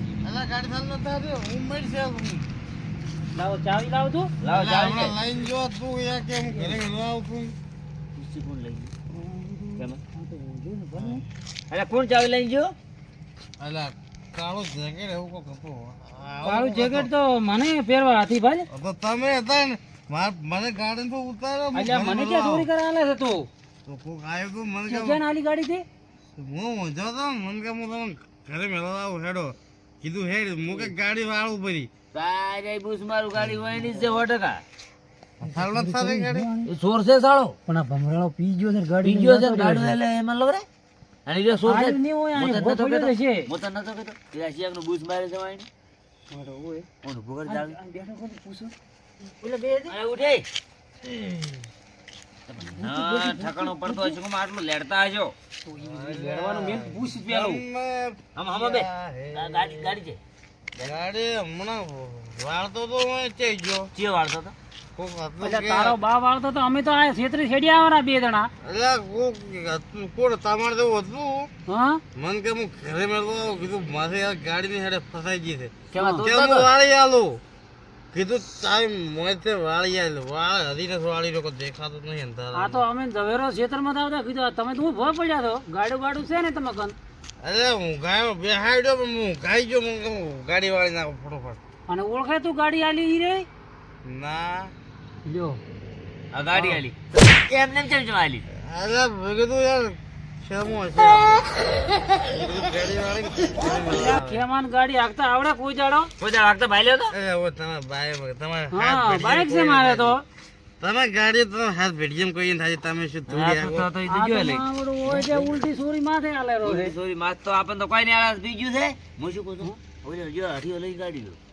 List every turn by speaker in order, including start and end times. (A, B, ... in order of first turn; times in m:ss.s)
0:00.2-0:02.5 A
0:03.3-0:04.3 B
0:04.4-0:05.2 C
0:04.5-0:07.5 A
0:06.5-0:06.7 B
0:08.2-0:08.9 C
0:09.1-0:11.2 B
0:11.0-0:11.2 A
0:11.7-0:12.7 C
0:13.6-0:17.1 A
0:16.4-0:18.7 B
0:18.7-0:22.7 A
0:21.7-0:23.5 B
0:23.8-0:25.2 A
0:24.9-0:25.8 B
0:26.4-0:31.9 A
0:32.1-0:34.6 C
0:35.4-0:36.5 A
0:35.4-0:36.7 B
0:36.7-0:37.6 C
0:37.7-0:40.0 B
0:39.0-0:40.6 C
0:41.2-0:45.7 C
0:41.6-0:43.5 B
0:46.3-0:46.9 B
0:47.0-0:47.8 C
0:47.4-0:50.0 B
0:49.9-0:50.5 C
0:52.5-0:55.3 C
0:52.6-0:54.2 B
0:55.6-0:57.6 B
0:55.8-1:00.0 A
0:58.4-1:00.2 C
1:00.8-1:03.9 A
1:03.9-1:04.5 C
1:05.0-1:06.0 A
1:05.4-1:08.5 B
1:08.6-1:11.5 A
1:11.7-1:12.0 B
1:12.2-1:17.4 A
1:15.9-1:16.7 C
1:15.9-1:16.2 B
1:18.1-1:22.8 A
1:22.5-1:27.0 B
1:27.4-1:31.6 A
1:31.9-1:33.5 B
1:34.0-1:34.7 A
1:35.2-1:35.6 B
1:36.3-1:38.4 C
1:38.6-1:41.4 A
1:42.3-1:44.4 A
1:43.6-1:46.1 B
1:46.2-1:47.1 C
1:47.1-1:50.2 A
1:48.7-1:50.2 B
1:50.8-1:53.9 A
1:53.3-1:55.6 C
1:54.1-1:56.9 B
1:56.6-2:01.4 C